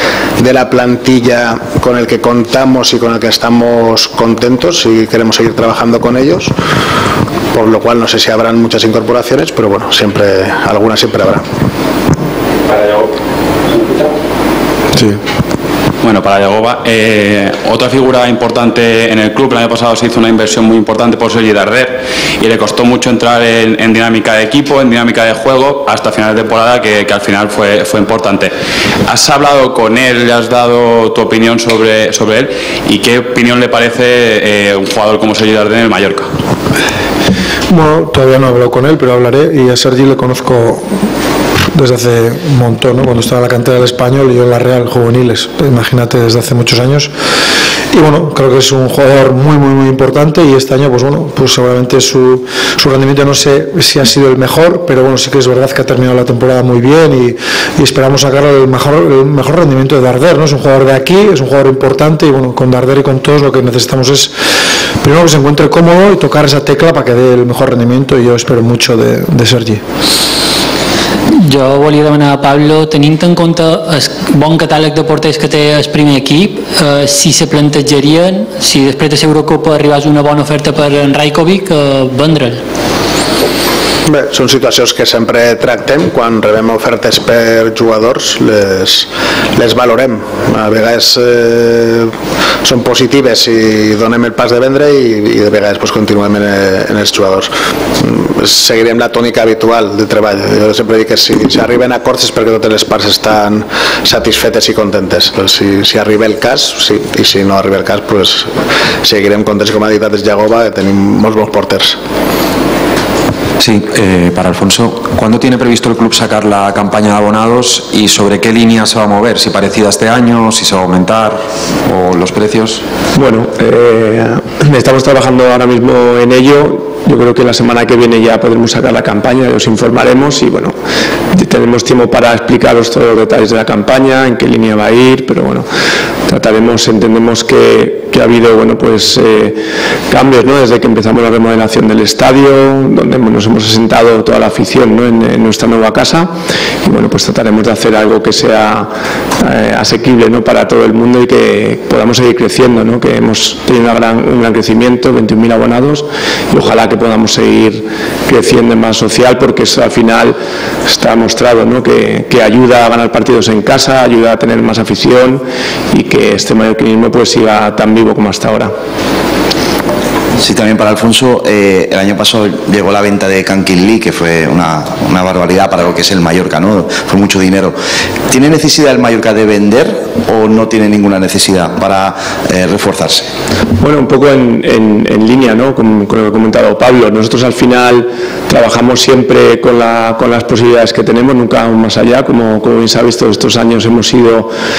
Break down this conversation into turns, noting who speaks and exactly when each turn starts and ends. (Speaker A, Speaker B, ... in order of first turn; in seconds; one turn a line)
Speaker A: 0.4-6.5
Speaker A: 7.5-11.4
Speaker B: 12.7-13.1
Speaker B: 13.7-14.1
Speaker B: 16.0-28.5
Speaker B: 29.1-36.3
Speaker C: 37.7-40.8
Speaker C: 41.7-47.1
Speaker C: 47.9-64.3
Speaker C: 65.0-69.8
Speaker D: 71.3-82.6
Speaker A: 84.0-108.5
Speaker A: 109.0-112.0
Speaker E: 113.6-122.8
Speaker F: 123.1-130.7
Speaker F: 131.3-135.7
Speaker F: 136.3-168.7
Speaker G: 170.4-177.7
Speaker G: 178.3-183.3
Speaker F: 183.8-194.5